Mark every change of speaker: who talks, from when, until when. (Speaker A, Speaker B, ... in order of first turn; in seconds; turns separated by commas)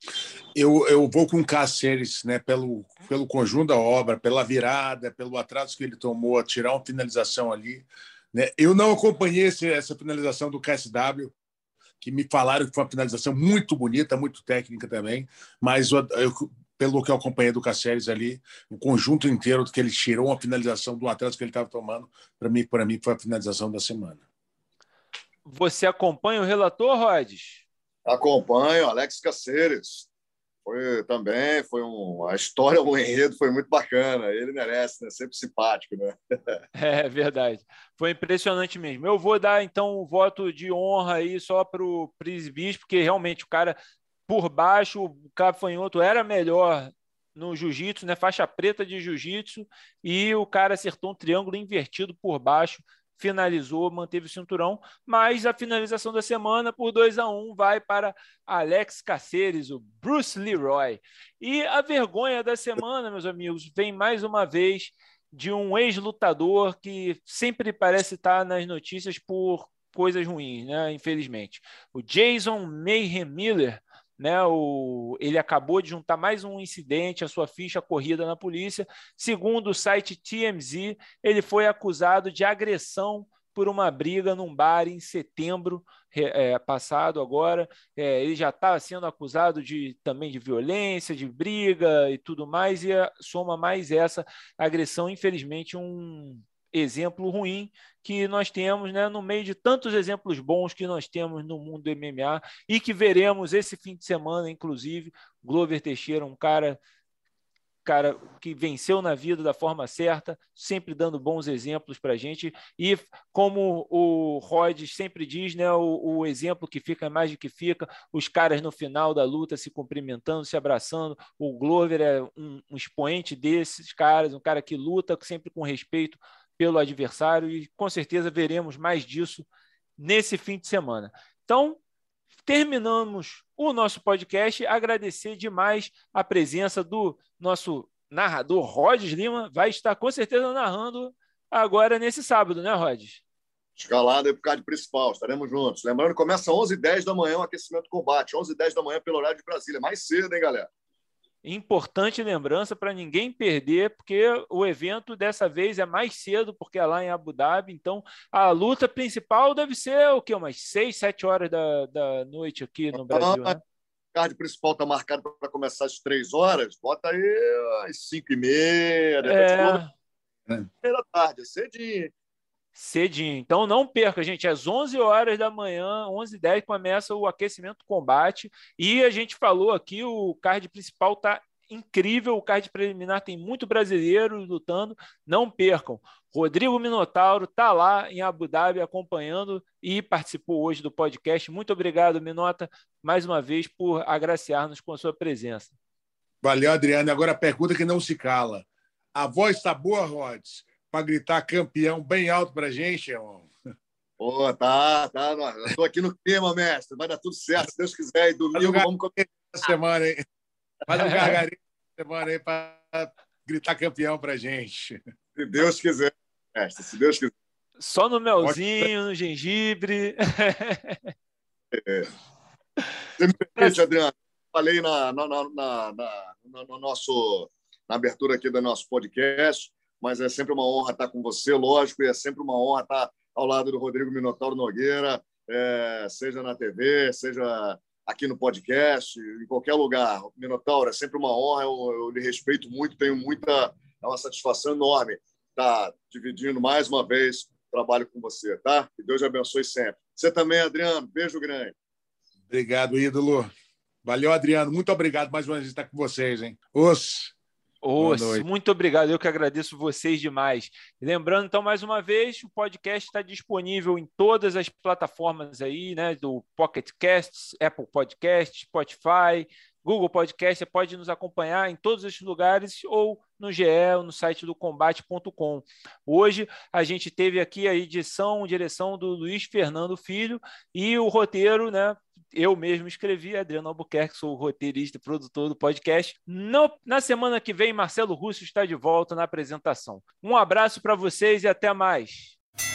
Speaker A: 0.5-11.3, Speaker A: 12.0-24.2, Speaker B: 25.4-27.6, Speaker C: 28.1-30.1, Speaker C: 30.6-36.6, Speaker B: 36.7-43.8, Speaker B: 44.3-106.8, Speaker B: 107.8-129.4, Speaker B: 130.0-131.8, Speaker B: 132.4-143.2, Speaker C: 143.8-150.7, Speaker B: 151.4-163.6, Speaker C: 162.9-163.6, Speaker C: 164.1-169.8, Speaker B: 169.2-169.9, Speaker C: 170.8-172.1, Speaker B: 172.8-195.7, Speaker A: 196.4-203.5, Speaker C: 204.2-209.1, Speaker A: 208.5-210.2, Speaker A: 210.9-215.0, Speaker C: 215.4-217.3, Speaker B: 217.8-221.1, Speaker A: 218.4-218.9, Speaker C: 221.7-222.1, Speaker C: 223.2-251.7, Speaker A: 252.5-253.5, Speaker A: 254.0-257.3, Speaker B: 257.8-292.4, Speaker A: 258.0-258.4